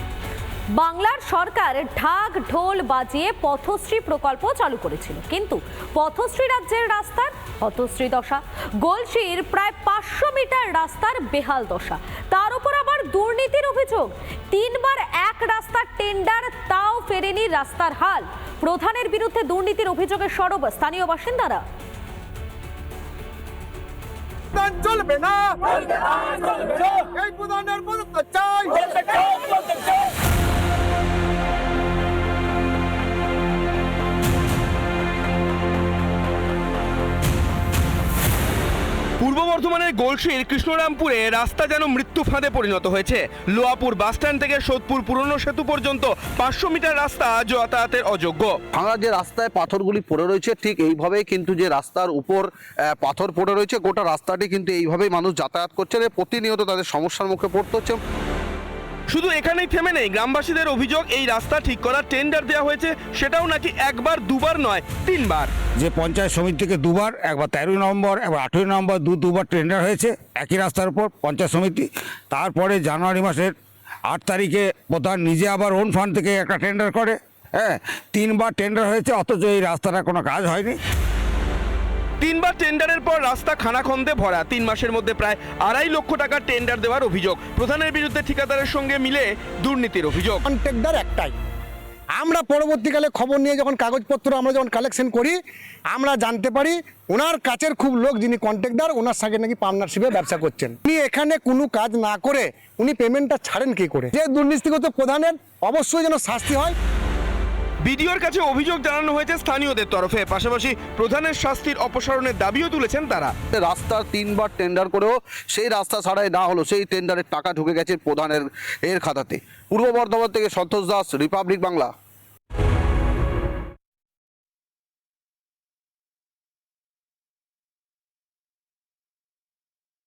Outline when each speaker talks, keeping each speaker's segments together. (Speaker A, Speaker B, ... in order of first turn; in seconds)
Speaker A: 0.8-21.6
Speaker B: 24.9-25.8, 26.3-26.6, 27.3-27.6, 28.3-29.6
Speaker C: 39.2-48.6, 59.1-65.5, 82.2-90.4, 107.8-113.3
Speaker D: 48.7-58.0, 113.5-122.0
Speaker E: 65.8-73.5, 74.1-80.8
Speaker F: 90.5-91.3, 92.2-95.4, 95.9-106.8